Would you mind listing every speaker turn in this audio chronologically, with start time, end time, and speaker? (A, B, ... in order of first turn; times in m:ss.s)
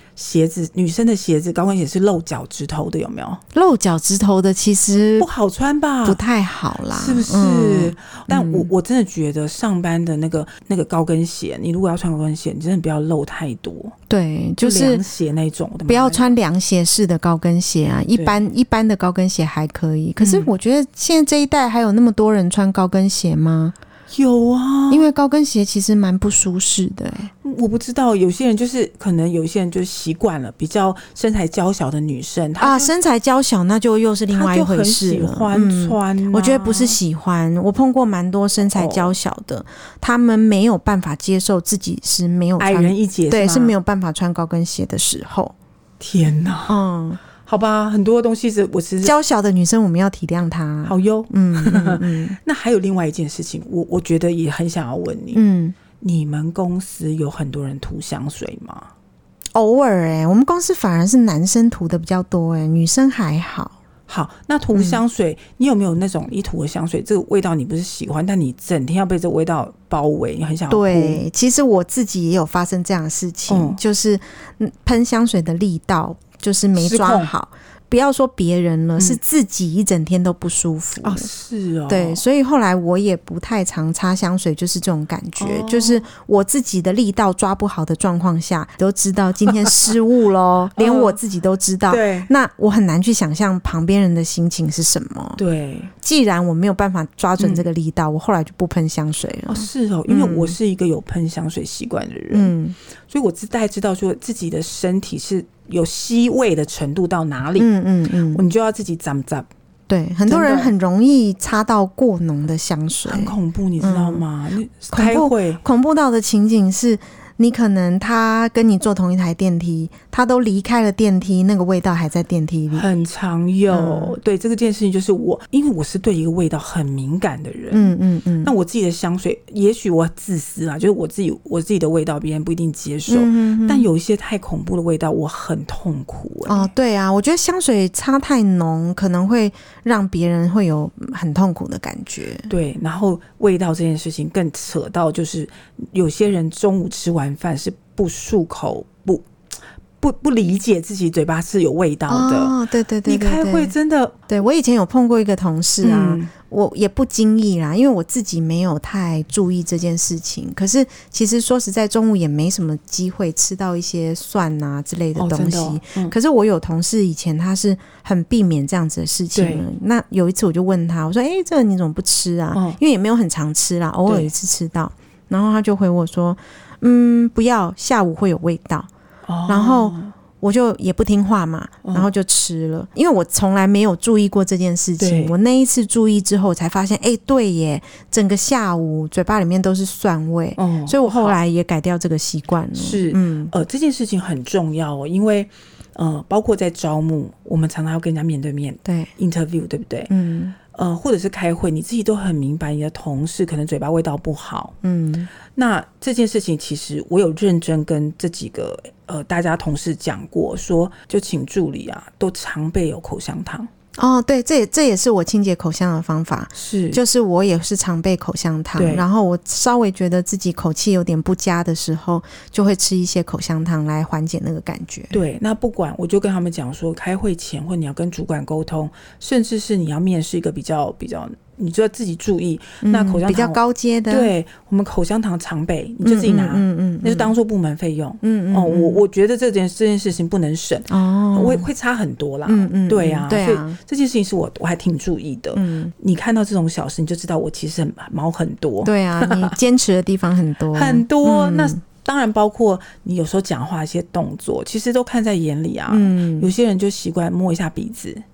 0:00.2-0:03.4 A
0:03.5-0:05.3 B
0:05.2-0:06.2 A
0:06.0-0:08.7 B
0:06.9-0:14.0 A
0:14.1-0:15.0 B
0:14.6-0:16.3 A
0:15.9-0:23.8 B
0:18.1-0:18.4 A
0:20.2-0:20.5 A
0:24.1-0:25.1 A
0:24.9-0:27.3 B
0:27.4-0:32.9 A
0:32.6-0:45.6 B
0:34.3-0:37.0 A
0:38.8-0:39.1 A
0:42.6-0:43.8 A
0:46.0-0:46.8 A
0:46.7-0:47.2 B
0:47.4-0:49.2 A
0:49.0-0:52.4 B
0:50.9-0:55.4 A
0:55.3-0:55.8 B
0:56.0-0:58.9 A
0:59.5-1:03.8 B
1:04.1-1:11.2 A
1:04.7-1:05.0 B
1:10.7-1:21.3 B
1:13.5-1:13.8 A
1:16.8-1:17.3 A
1:21.0-1:22.2 A
1:21.9-1:35.4 B
1:25.4-1:26.1 A
1:30.8-1:31.2 A
1:31.9-1:32.3 A
1:35.4-1:35.9 A
1:36.0-1:40.6 B
1:37.4-1:37.6 A
1:39.5-1:42.6 A
1:42.3-1:42.8 B
1:43.1-1:47.7 A
1:47.6-1:48.4 B
1:48.3-1:49.5 A
1:49.9-1:54.2 B
1:50.3-1:50.7 A
1:53.0-1:55.6 A
1:54.9-2:02.9 B
2:02.7-2:16.7 A
2:03.7-2:04.2 B
2:07.7-2:08.5 B
2:13.1-2:13.9 B
2:16.5-2:22.5 B
2:22.5-2:29.3 A
2:30.0-2:34.2 A
2:32.1-2:33.7 B
2:34.3-2:58.9 B
2:35.8-2:36.3 A
2:45.2-2:46.2 A
2:49.3-2:49.6 A
2:52.5-2:52.8 A
2:54.1-2:54.3 A
2:59.3-3:00.1 A
2:59.5-3:13.5 B
3:05.0-3:05.4 A
3:10.6-3:11.4 A
3:12.8-3:20.1 A
3:18.8-3:19.1 B
3:20.1-3:20.6 B
3:20.7-3:24.8 A
3:24.8-3:25.3 B
3:25.5-3:33.7 A
3:34.0-3:45.1 B
3:36.6-3:37.0 A
3:38.8-3:39.1 A
3:45.1-4:09.6 A
3:52.8-3:54.3 B
3:56.0-3:57.3 B
3:58.2-3:59.0 B
4:00.9-4:01.7 B
4:02.5-4:03.8 B
4:05.6-4:05.9 B
4:08.8-4:11.8 B
4:10.7-4:18.2 A
4:15.9-4:16.5 B